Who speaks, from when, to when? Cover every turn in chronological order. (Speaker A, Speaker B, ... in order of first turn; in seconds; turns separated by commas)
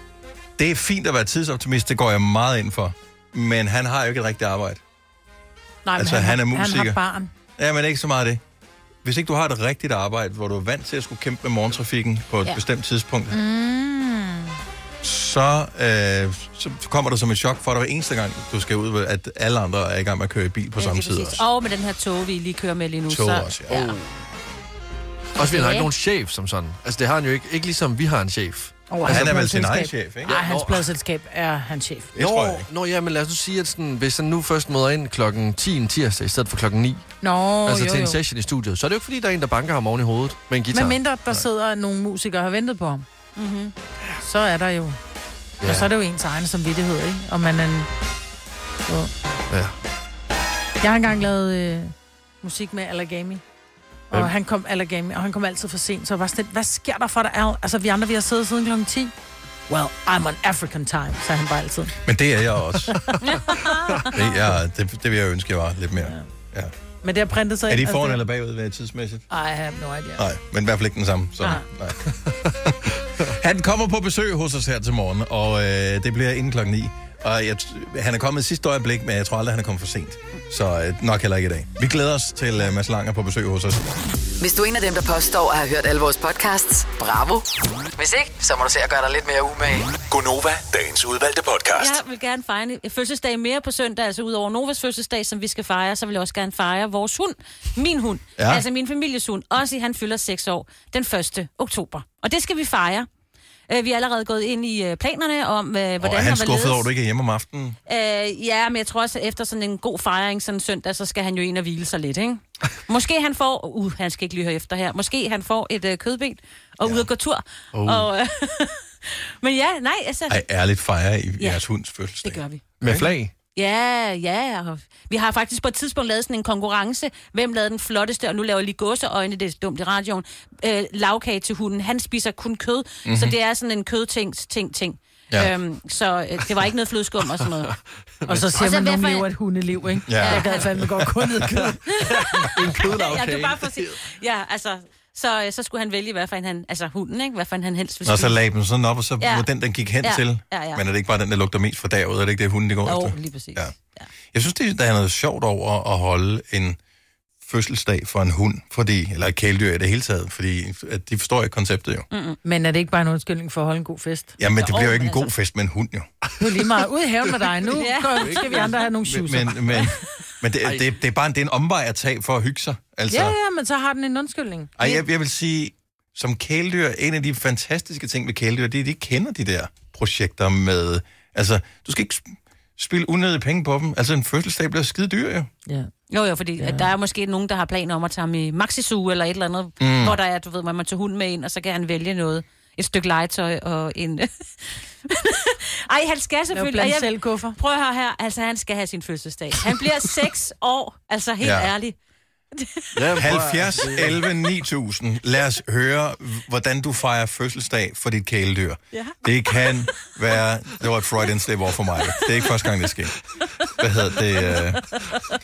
Speaker A: 0.6-4.8, Speaker B: 5.8-7.3, Speaker A: 6.0-7.0, Speaker A: 7.6-8.4, Speaker A: 9.0-13.4, Speaker B: 13.3-14.6, Speaker A: 15.0-21.4, Speaker C: 20.8-24.0, Speaker A: 23.1-23.9, Speaker D: 23.7-24.0, Speaker D: 25.4-29.3, Speaker C: 25.4-25.9, Speaker B: 28.9-32.1, Speaker A: 29.1-30.4, Speaker D: 30.2-30.9, Speaker A: 32.1-32.7, Speaker D: 32.2-37.1, Speaker B: 37.2-38.2, Speaker D: 37.6-41.0, Speaker B: 40.7-43.1, Speaker C: 43.4-43.7, Speaker B: 44.2-45.0, Speaker D: 45.6-45.9, Speaker B: 45.6-47.9, Speaker D: 49.5-49.7, Speaker B: 50.8-53.4, Speaker B: 54.1-59.1, Speaker B: 59.7-62.0, Speaker A: 62.0-63.1, Speaker C: 63.2-64.2, Speaker A: 64.1-66.7, Speaker B: 67.0-68.2, Speaker A: 67.7-69.2, Speaker B: 69.3-70.2, Speaker A: 70.2-83.9, Speaker E: 84.4-90.0, Speaker F: 90.1-92.0, Speaker C: 91.8-103.1, Speaker A: 98.4-98.6, Speaker C: 103.7-106.9, Speaker A: 106.0-107.8, Speaker C: 107.9-120.4, Speaker D: 117.7-118.1, Speaker A: 120.3-123.1, Speaker C: 122.2-122.6, Speaker D: 122.8-123.3, Speaker C: 123.5-137.7, Speaker A: 133.1-133.3, Speaker B: 138.3-141.9, Speaker C: 138.5-139.3, Speaker A: 140.1-140.6, Speaker C: 140.2-140.7, Speaker C: 142.0-148.4, Speaker D: 142.1-143.9, Speaker A: 148.1-153.7, Speaker C: 149.2-149.5, Speaker C: 150.0-150.8, Speaker C: 152.9-154.1, Speaker A: 154.3-156.8, Speaker A: 157.4-162.1, Speaker C: 162.1-162.4, Speaker B: 162.4-164.4, Speaker A: 164.4-166.1, Speaker C: 164.6-165.3, Speaker B: 166.4-169.6, Speaker D: 167.5-169.2, Speaker C: 167.8-168.7, Speaker A: 169.1-173.4, Speaker D: 170.6-170.9, Speaker B: 173.1-174.7, Speaker A: 174.8-185.5, Speaker C: 186.1-201.9, Speaker B: 186.6-186.9, Speaker A: 189.8-190.2, Speaker B: 196.5-197.6, Speaker A: 201.4-201.7, Speaker C: 202.5-203.0, Speaker D: 202.9-204.3, Speaker A: 203.1-213.2, Speaker C: 208.9-210.1, Speaker C: 212.1-212.5, Speaker A: 213.8-214.9